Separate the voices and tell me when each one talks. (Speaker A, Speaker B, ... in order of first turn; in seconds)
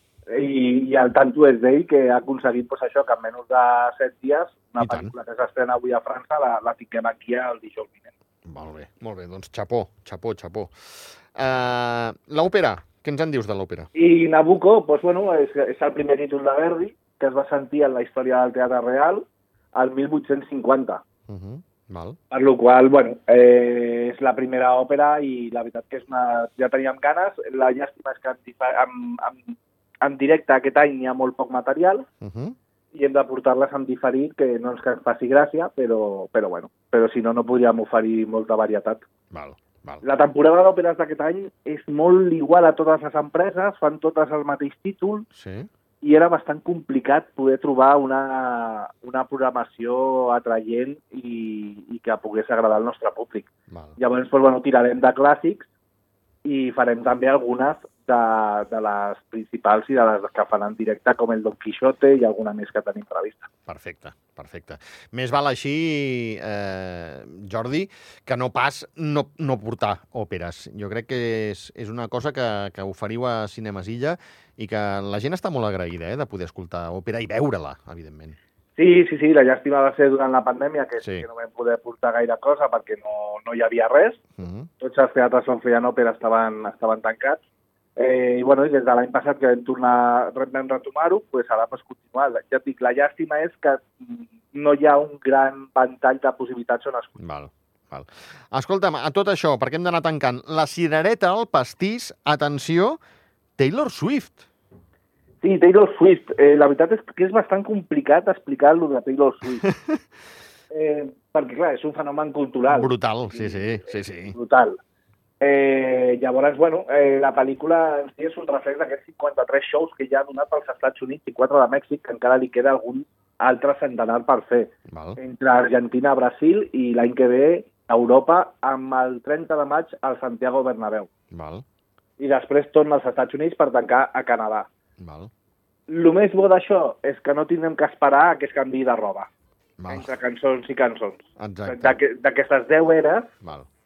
Speaker A: 0.3-8.1, 13.9-21.0, 22.3-32.1, 32.9-39.0, 40.0-45.2, 46.0-55.7, 56.4-63.5, 78.8-84.2, 84.8-87.4, 88.0-97.2, 105.4-109.7, 110.7-114.8, 115.4-131.1, 132.2-134.7, 135.9-139.3, 139.9-143.3
Speaker B: 4.8-5.1, 8.4-13.9, 21.3-22.2, 32.2-32.6, 39.3-40.0, 45.3-45.7, 53.7-54.0, 63.7-78.4, 81.0-81.3, 84.4-84.7, 97.2-103.0, 103.6-104.4, 109.6-110.0, 112.7-114.3, 124.9-125.2, 131.3-131.6, 135.0-135.3, 139.8-140.1, 141.4-142.0